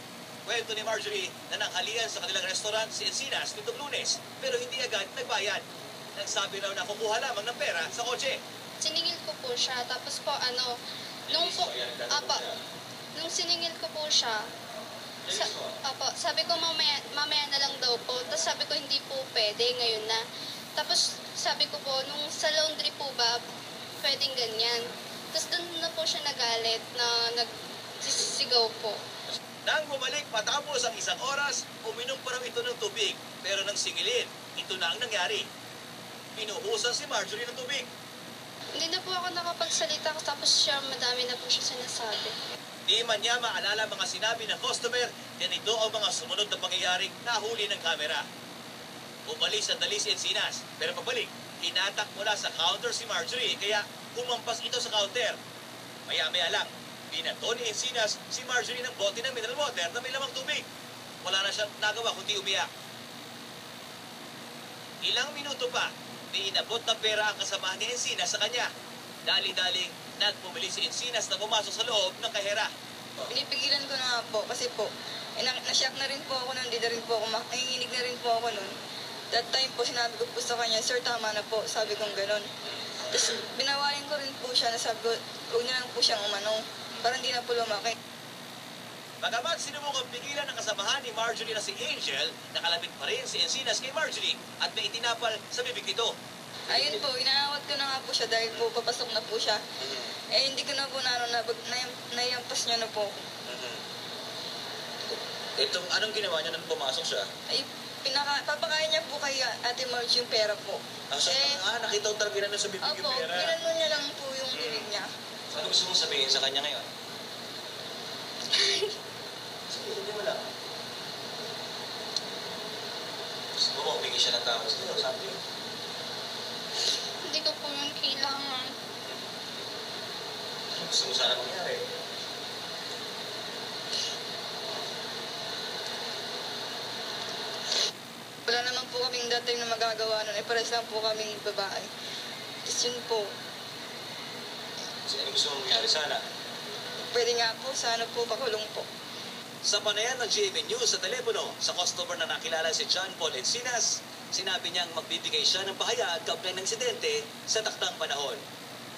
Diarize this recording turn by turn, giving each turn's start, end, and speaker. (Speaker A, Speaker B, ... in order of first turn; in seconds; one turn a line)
Speaker A: 0.5-5.6
Speaker A: 6.2-8.4
Speaker B: 8.8-10.7
Speaker B: 11.3-12.5
Speaker A: 11.3-12.6
Speaker B: 13.2-14.5
Speaker A: 15.3-15.7
Speaker B: 15.3-20.2
Speaker B: 20.8-23.4
Speaker B: 24.0-29.0
Speaker A: 29.6-35.5
Speaker A: 36.4-37.9
Speaker B: 38.8-42.3
Speaker A: 42.9-48.2
Speaker A: 49.3-55.4
Speaker A: 56.1-60.6
Speaker A: 61.2-62.7
Speaker A: 65.0-68.7
Speaker A: 69.2-72.7
Speaker C: 73.3-78.8
Speaker C: 79.3-82.5
Speaker C: 83.1-88.0
Speaker A: 89.2-96.2
Speaker C: 96.7-99.6
Speaker A: 99.8-100.1
Speaker C: 100.3-103.2
Speaker A: 103.5-103.8
Speaker A: 105.6-107.3
Speaker C: 107.5-111.6
Speaker A: 111.1-113.5
Speaker C: 112.8-115.1
Speaker A: 114.5-114.9
Speaker A: 115.5-116.9
Speaker B: 118.5-118.9
Speaker A: 119.7-120.5
Speaker A: 123.6-125.4
Speaker B: 127.2-128.7
Speaker A: 130.7-131.8
Speaker C: 138.5-141.9
Speaker C: 142.6-143.3
Speaker A: 145.1-146.2
Speaker C: 147.1-148.9
Speaker A: 149.6-158.4